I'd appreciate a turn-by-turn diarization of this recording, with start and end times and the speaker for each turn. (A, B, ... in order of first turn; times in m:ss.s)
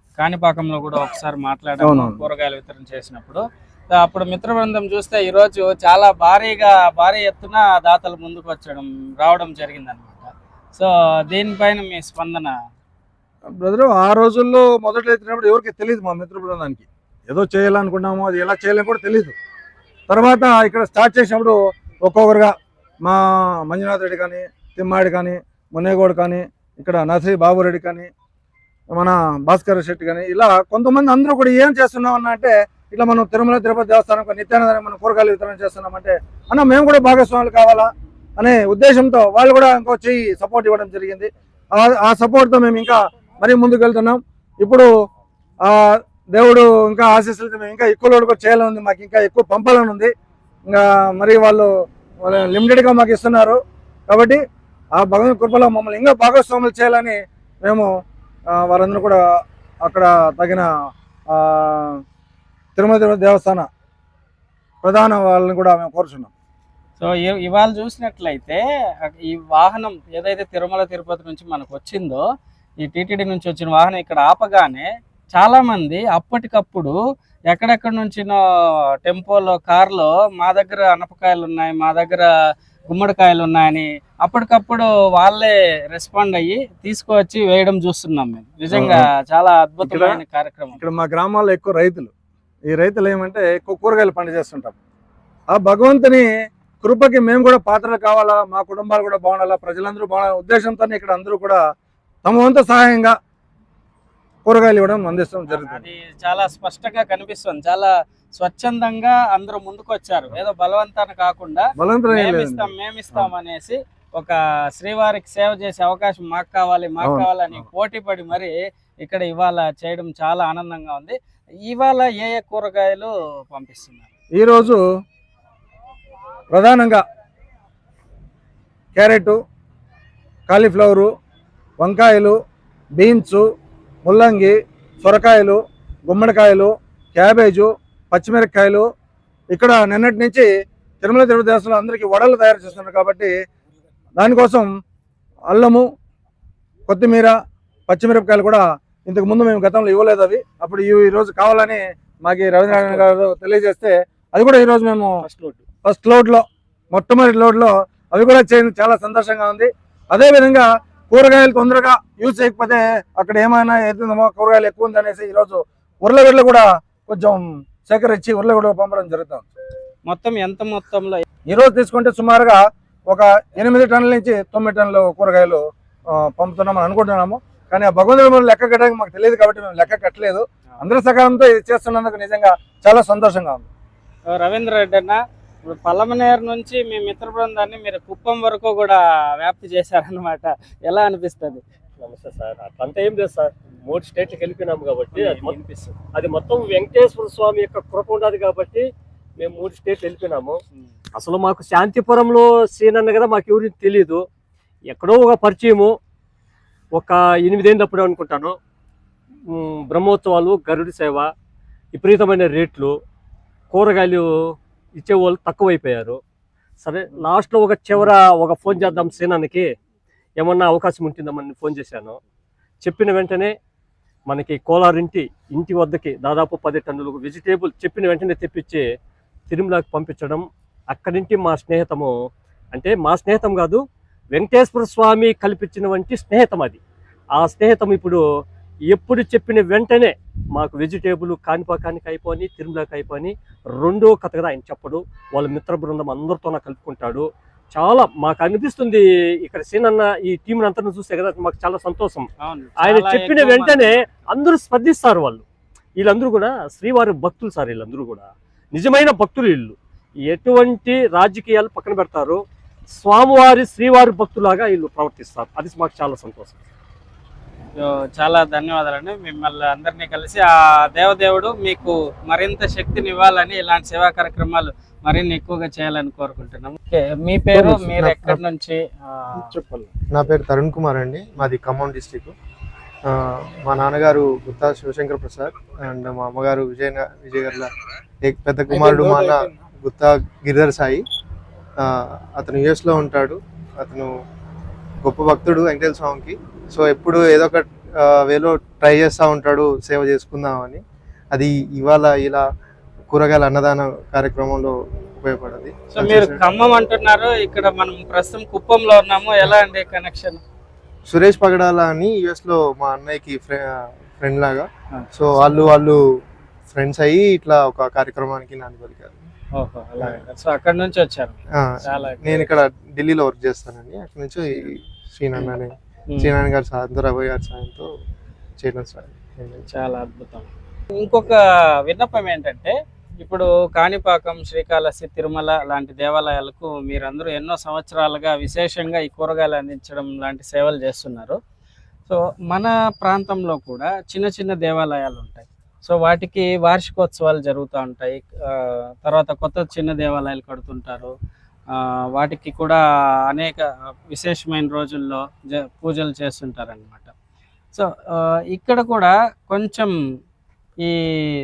0:00.2-0:12.5 A
0:01.8-0:02.2 B
0:13.6-0:19.3 B
0:20.1-0:28.1 B
0:28.9-0:44.9 B
0:45.6-0:50.1 B
0:50.7-0:51.7 B
0:52.2-0:54.4 B
0:55.0-0:57.9 B
0:58.5-0:59.2 B
0:59.8-1:00.7 B
1:01.3-1:02.0 B
1:02.8-1:03.7 B
1:04.8-1:06.3 B
1:07.0-1:12.2 A
1:12.8-1:17.0 A
1:17.5-1:18.4 A
1:19.0-1:22.3 A
1:22.9-1:30.8 A
1:28.7-1:29.1 B
1:29.8-1:30.2 B
1:30.8-1:32.1 B
1:32.7-1:34.8 B
1:35.5-1:36.3 B
1:36.8-1:41.6 B
1:42.2-1:43.2 B
1:44.4-1:45.8 B
1:45.5-2:04.1 A
1:51.8-1:53.3 B
1:57.0-1:57.6 B
2:04.3-2:04.8 B
2:06.5-2:07.0 B
2:09.0-2:09.4 B
2:10.5-2:11.1 B
2:11.8-2:12.4 B
2:13.0-2:13.5 B
2:14.0-2:18.9 B
2:19.5-2:20.5 B
2:21.0-2:23.3 B
2:24.2-2:24.7 B
2:25.5-2:25.9 B
2:26.9-2:27.4 B
2:27.9-2:35.2 B
2:32.7-2:33.1 C
2:35.2-2:35.6 C
2:35.8-2:49.5 B
2:50.1-2:51.2 A
2:51.5-3:03.7 B
3:04.3-3:11.6 A
3:12.0-3:15.5 C
3:15.2-3:16.0 A
3:16.1-3:18.8 C
3:19.4-3:20.6 C
3:21.2-3:24.2 C
3:24.9-3:25.9 C
3:27.0-3:28.6 C
3:29.5-3:31.3 C
3:31.9-3:32.9 C
3:33.7-3:34.2 C
3:35.0-3:36.2 C
3:36.8-3:39.7 C
3:40.4-3:42.2 C
3:42.8-3:43.5 C
3:44.3-3:48.8 C
3:49.5-3:52.1 C
3:52.7-3:53.8 C
3:54.3-3:56.8 C
3:57.4-3:58.2 C
3:58.9-4:12.3 C
4:12.4-4:14.0 A
4:12.8-4:15.4 C
4:16.0-4:19.8 C
4:20.3-4:22.4 C
4:23.0-4:26.6 C
4:27.8-4:39.5 A
4:37.5-4:38.4 D
4:39.6-4:39.9 B
4:40.1-4:42.3 D
4:43.1-4:51.0 D
4:51.8-4:54.1 D
4:55.0-5:00.8 D
5:01.3-5:02.4 D
5:03.1-5:06.4 D
5:05.9-5:10.4 A
5:11.1-5:16.0 D
5:15.0-5:15.6 A
5:16.7-5:19.2 D
5:19.6-5:22.5 A
5:21.6-5:27.9 D
5:28.6-5:29.7 D
5:29.7-5:41.4 A
5:42.1-5:51.1 A
5:51.7-5:57.1 A
5:57.7-5:59.9 A